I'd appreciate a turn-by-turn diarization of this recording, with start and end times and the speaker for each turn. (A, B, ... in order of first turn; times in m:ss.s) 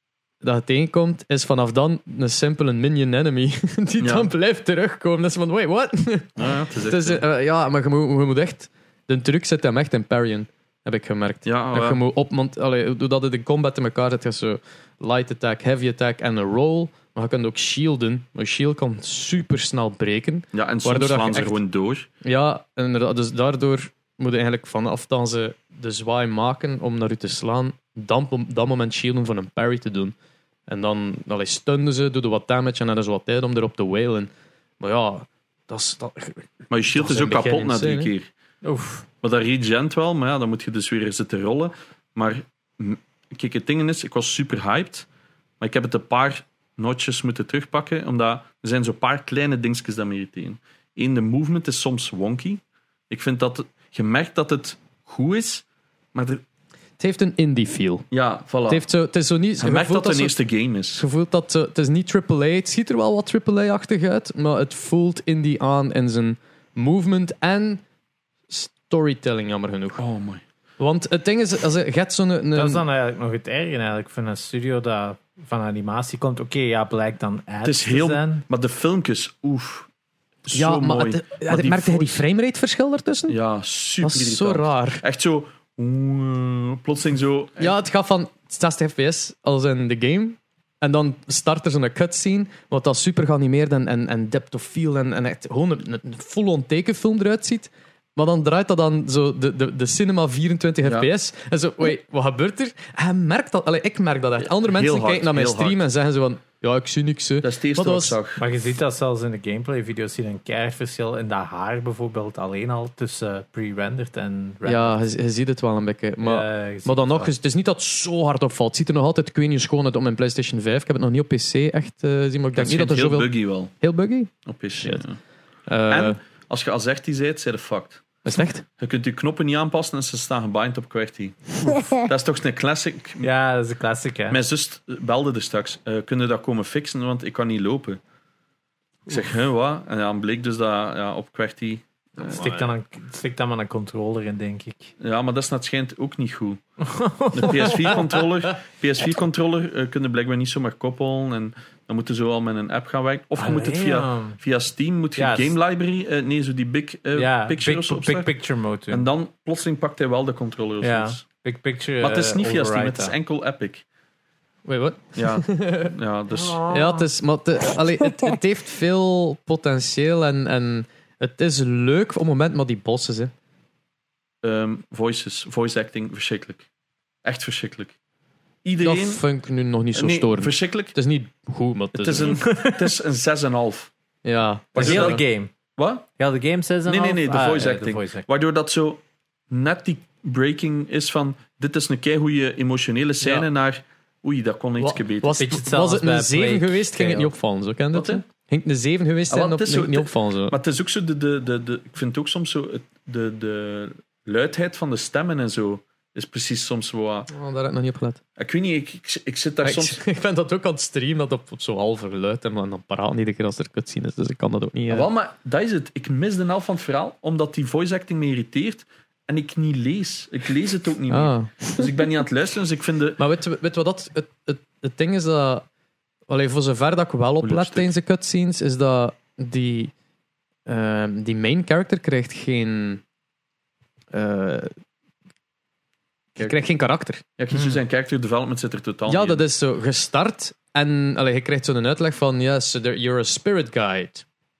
0:00.4-0:21.6 A
0:04.0-0:04.3 B
0:06.4-0:07.2 B
0:11.4-0:12.0 B
0:20.5-0:22.1 B
0:22.2-0:30.2 A
0:30.7-0:38.1 A
0:36.7-0:38.3 B
0:38.6-0:39.1 C
0:39.2-0:45.1 B
0:45.6-0:56.4 B
0:57.0-0:58.1 A
0:58.1-0:58.9 B
0:58.7-1:00.4 A
0:59.6-1:01.0 B
1:01.0-1:07.8 A
1:08.5-1:10.0 A
1:10.0-1:10.4 B
1:10.8-1:12.8 A
1:12.6-1:18.4 C
1:17.6-1:19.9 B
1:20.4-1:22.2 B
1:20.5-1:23.4 A
1:23.3-1:27.8 B
1:24.0-1:25.0 A
1:27.6-1:48.2 A
1:40.8-1:41.1 B
1:44.4-1:45.8 B
1:47.4-1:48.4 B
1:48.4-1:55.0 C
1:54.6-2:05.1 A
1:56.2-1:57.3 C
2:02.6-2:03.7 B
2:04.4-2:05.2 B
2:05.7-2:06.2 A
2:05.9-2:08.0 B
2:08.2-2:08.6 A
2:08.8-2:13.3 B
2:13.2-2:14.4 C
2:14.3-2:18.0 B
2:19.1-2:22.4 B
2:22.2-2:22.7 A
2:22.2-2:24.9 C
2:25.0-2:26.6 B
2:26.9-2:28.2 C
2:27.3-2:38.3 B
2:33.4-2:34.4 C
2:35.2-2:35.6 C
2:37.2-2:39.1 C
2:38.9-2:41.2 B
2:40.8-2:43.2 C
2:42.0-2:43.8 B
2:44.6-2:45.9 A
2:45.2-2:46.7 B
2:46.3-2:47.1 C
2:46.7-2:53.3 A
2:54.4-2:56.7 B
2:57.2-2:58.0 B
2:58.6-2:59.2 B
2:58.8-3:02.4 A
3:00.0-3:01.0 B
3:01.9-3:03.9 B
3:02.3-3:02.9 C
3:04.2-3:05.2 A
3:04.7-3:05.2 B
3:04.8-3:05.5 C
3:05.8-3:06.1 B
3:06.2-3:08.3 C
3:06.9-3:15.4 B
3:14.8-3:20.6 A
3:15.4-3:17.3 C
3:17.9-3:18.2 B
3:19.3-3:27.3 B
3:27.3-3:28.2 A
3:28.4-3:30.0 B
3:29.6-3:35.1 A
3:34.9-3:43.2 B
3:41.1-3:41.9 A
3:43.2-3:45.6 A
3:46.3-3:49.9 A
3:47.4-3:47.9 B
3:50.7-3:53.0 A
3:54.1-3:54.7 A
3:56.4-3:57.2 A
3:57.4-3:59.4 B
3:59.1-4:04.2 A